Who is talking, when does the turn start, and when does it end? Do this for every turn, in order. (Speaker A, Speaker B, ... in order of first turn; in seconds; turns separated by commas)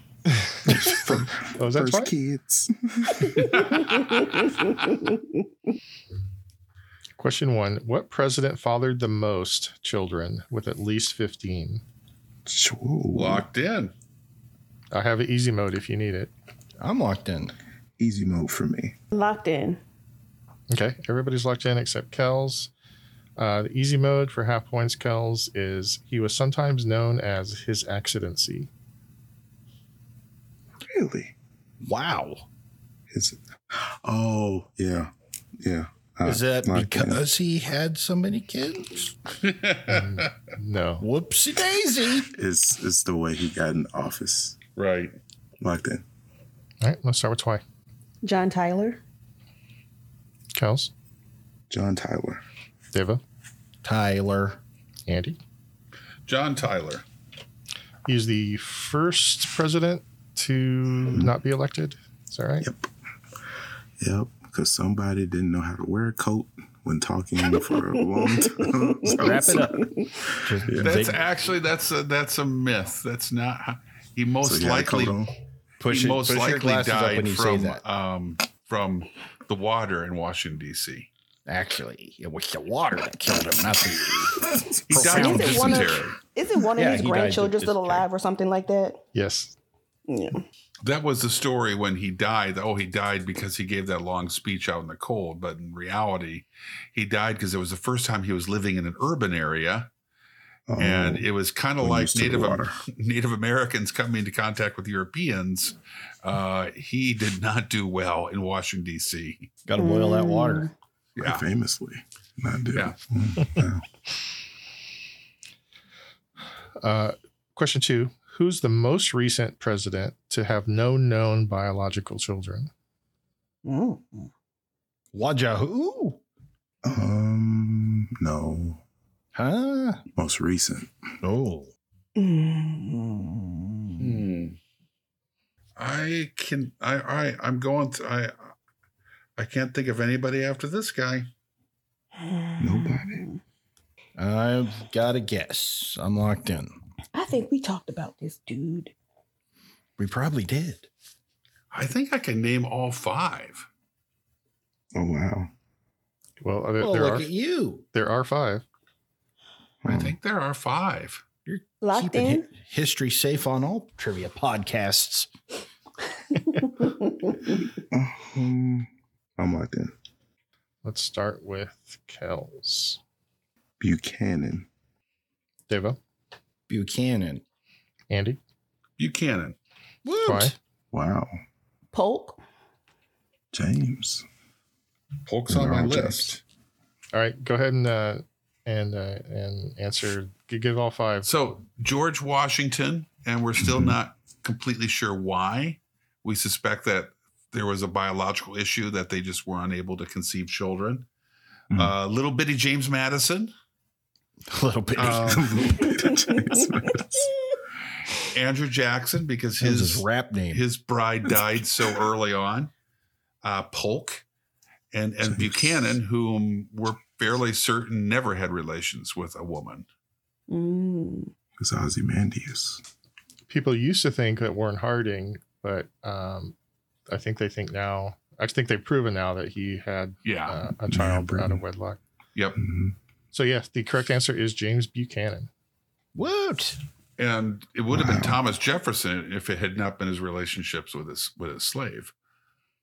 Speaker A: 0.4-0.7, Speaker B: 0.6-3.6, Speaker A: 1.5-2.1, Speaker C: 3.5-4.2, Speaker A: 7.2-11.8, Speaker B: 12.4-13.4, Speaker C: 13.1-13.9, Speaker A: 14.9-16.3, Speaker D: 16.8-17.5, Speaker B: 18.0-18.9, Speaker E: 19.1-19.8, Speaker A: 20.7-22.7, Speaker A: 23.4-28.7, Speaker B: 30.8-31.3, Speaker D: 31.8-32.5, Speaker B: 33.1-37.2, Speaker D: 36.2-39.1, Speaker C: 39.4-40.3, Speaker A: 39.9-41.0, Speaker D: 41.0-42.3, Speaker B: 42.3-44.6, Speaker C: 44.8-45.1, Speaker B: 45.6-46.0, Speaker A: 46.8-47.6, Speaker E: 48.2-49.0, Speaker A: 50.5-50.9, Speaker B: 51.7-52.4, Speaker A: 52.9-53.2, Speaker D: 53.8-54.6, Speaker A: 55.1-55.4, Speaker C: 56.2-57.0, Speaker A: 58.0-62.7, Speaker B: 62.6-62.9, Speaker B: 64.0-69.7, Speaker E: 68.2-70.1, Speaker D: 69.1-71.2, Speaker B: 70.6-71.1, Speaker C: 70.8-75.2, Speaker B: 74.4-75.3, Speaker D: 75.8-77.8, Speaker C: 75.8-81.1, Speaker D: 81.5-86.0, Speaker C: 84.9-86.2, Speaker E: 85.0-89.0, Speaker D: 86.8-88.1, Speaker A: 89.1-89.5, Speaker E: 90.1-90.4, Speaker C: 90.8-99.9, Speaker B: 100.7-102.8, Speaker C: 100.8-109.5, Speaker D: 109.7-110.7, Speaker E: 109.8-110.7, Speaker C: 111.2-111.4, Speaker B: 111.2-113.8, Speaker A: 116.8-122.7, Speaker E: 123.6-124.3, Speaker D: 125.1-126.2, Speaker B: 126.8-128.8, Speaker D: 129.3-130.0, Speaker B: 130.2-130.9, Speaker D: 131.2-131.7, Speaker E: 132.2-133.5, Speaker C: 134.0-134.6, Speaker C: 135.8-138.5, Speaker C: 139.4-141.3, Speaker E: 142.2-143.4, Speaker B: 142.6-143.2, Speaker D: 144.2-146.8, Speaker E: 147.1-148.9, Speaker D: 150.0-150.9, Speaker C: 151.7-153.7, Speaker B: 154.9-155.5, Speaker A: 156.4-157.3, Speaker D: 156.8-157.8, Speaker A: 157.9-158.6, Speaker B: 159.8-160.1, Speaker C: 159.8-161.2, Speaker D: 161.4-165.3, Speaker E: 161.8-162.5, Speaker B: 167.9-169.9, Speaker A: 170.8-173.0, Speaker B: 173.8-174.7, Speaker A: 175.7-176.0, Speaker D: 176.7-177.4, Speaker A: 178.1-178.4, Speaker C: 179.0-179.6, Speaker D: 180.0-180.6, Speaker A: 180.2-180.5, Speaker B: 180.9-181.4, Speaker E: 181.9-182.4, Speaker B: 183.5-184.2, Speaker C: 185.2-186.4, Speaker B: 185.5-186.4, Speaker A: 187.1-191.3, Speaker C: 191.2-201.1, Speaker B: 193.6-193.9, Speaker C: 201.7-203.5, Speaker D: 204.5-206.0, Speaker C: 204.9-205.8, Speaker B: 205.2-207.3, Speaker C: 208.3-212.7, Speaker D: 209.6-210.6, Speaker C: 213.4-214.2, Speaker C: 214.9-219.9, Speaker B: 215.3-215.9, Speaker E: 220.5-221.3, Speaker B: 221.6-222.8, Speaker A: 223.5-226.5, Speaker A: 227.1-232.0, Speaker C: 230.2-230.6, Speaker B: 230.9-231.6, Speaker C: 232.3-232.6, Speaker B: 232.6-232.9, Speaker A: 233.3-235.5, Speaker D: 236.1-236.8, Speaker C: 237.2-242.1, Speaker B: 237.9-238.4